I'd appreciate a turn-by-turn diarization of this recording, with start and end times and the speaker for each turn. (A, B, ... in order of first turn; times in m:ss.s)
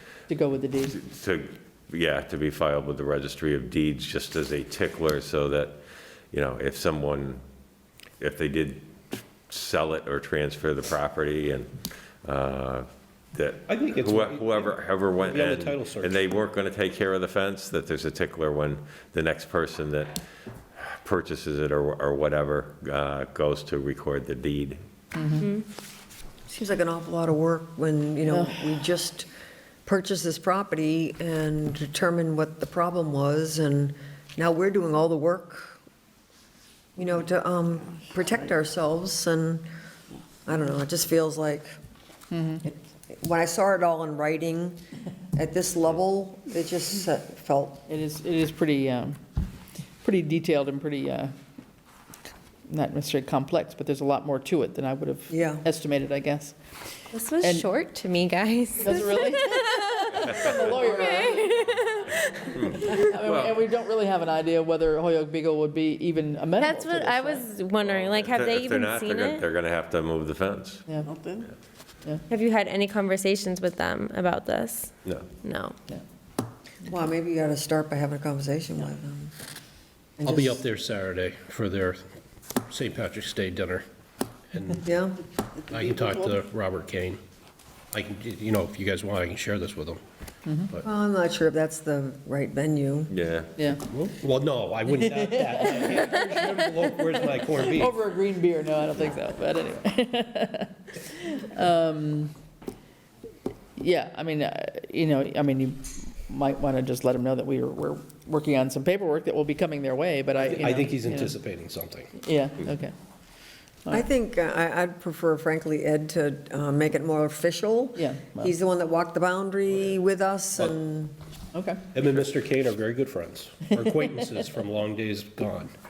0:00.3-0:01.0 A
0:00.9-0:05.8 B
0:06.3-0:07.4 B
0:08.2-0:20.2 B
0:13.7-0:16.4 C
0:20.8-0:24.8 B
0:25.1-0:25.5 A
0:25.4-0:25.6 D
0:26.5-0:29.3 E
0:28.3-0:28.9 A
0:29.9-0:35.8 E
0:37.0-0:39.6 E
0:40.5-0:41.7 E
0:42.3-0:42.6 A
0:42.6-0:44.8 E
0:45.4-0:47.8 E
0:47.9-0:49.2 A
0:50.0-0:51.3 A
0:52.7-0:56.6 A
0:55.3-0:55.6 E
0:57.1-1:02.6 D
0:57.4-0:57.7 A
0:58.8-1:01.8 A
1:00.1-1:00.8 B
1:02.5-1:03.6 B
1:02.6-1:07.5 A
1:06.6-1:09.5 D
1:07.8-1:10.8 B
1:10.9-1:11.1 A
1:12.3-1:15.8 D
1:15.0-1:15.3 B
1:16.8-1:19.3 E
1:20.2-1:20.6 E
1:20.3-1:22.2 C
1:22.7-1:23.8 C
1:24.5-1:24.8 C
1:24.8-1:25.2 E
1:25.7-1:27.2 C
1:27.9-1:30.0 C
1:30.5-1:30.7 A
1:30.8-1:33.1 E
1:33.1-1:33.5 B
1:33.6-1:33.9 A
1:33.9-1:38.0 C
1:35.0-1:36.4 A
1:37.7-1:42.3 A
1:43.8-1:51.4 A
1:50.4-1:52.1 C
1:52.2-1:52.9 A
1:53.9-2:01.1 E
1:58.0-1:58.5 A
2:01.5-2:01.8 A
2:01.9-2:05.7 C